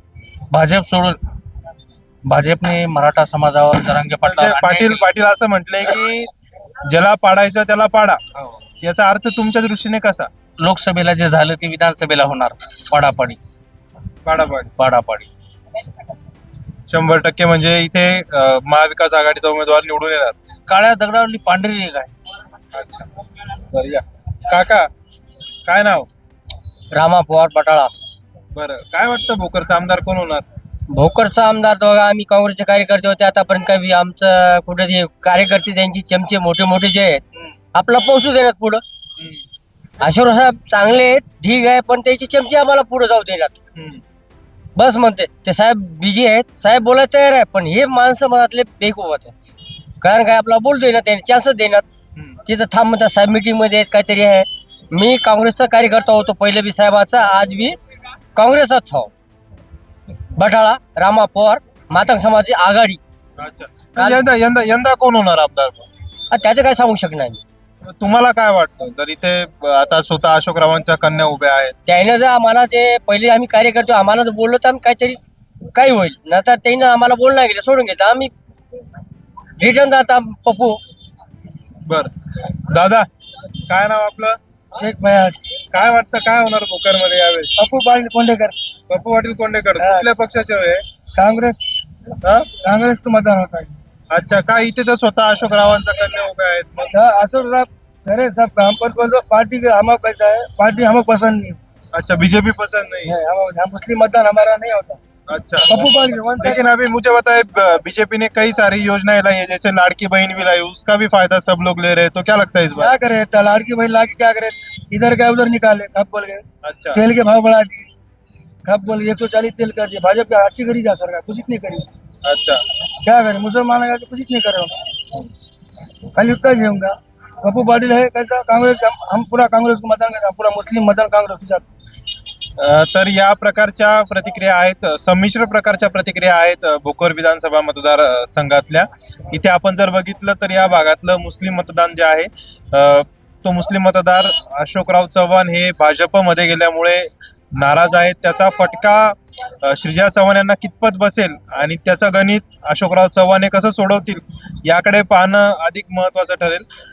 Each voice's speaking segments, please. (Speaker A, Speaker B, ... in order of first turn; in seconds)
Speaker A: 0.5-1.2, 2.2-5.0, 10.6-13.4, 14.8-15.3, 20.7-22.1
Speaker B: 4.2-6.3, 6.9-10.3, 14.2-14.7, 16.9-20.3, 22.7-23.1, 23.7-24.9, 25.7-26.1, 28.5-30.5, 43.8-44.0, 63.4-65.8, 67.8-71.7, 81.8-83.0, 83.7-84.4, 85.7-87.5, 88.9-90.8, 92.2-92.5, 94.1-96.9, 101.9-103.2, 105.3-105.8, 106.4-112.9, 116.6-117.0, 122.2-122.6, 132.6-156.7
Speaker C: 26.9-27.9, 30.9-37.2, 37.7-38.8, 40.0-43.6, 44.7-49.3, 50.0-51.8, 52.4-57.8, 58.3-59.1, 60.4-63.0, 64.0-64.2, 66.3-67.4, 71.9-78.3, 79.6-80.8
Speaker D: 84.7-85.4, 87.6-88.5, 89.8-90.0, 91.1-91.7, 92.6-93.7, 96.9-101.6, 103.0-105.0, 105.7-106.6, 112.8-117.9, 118.6-121.9, 123.0-124.8, 126.1-131.7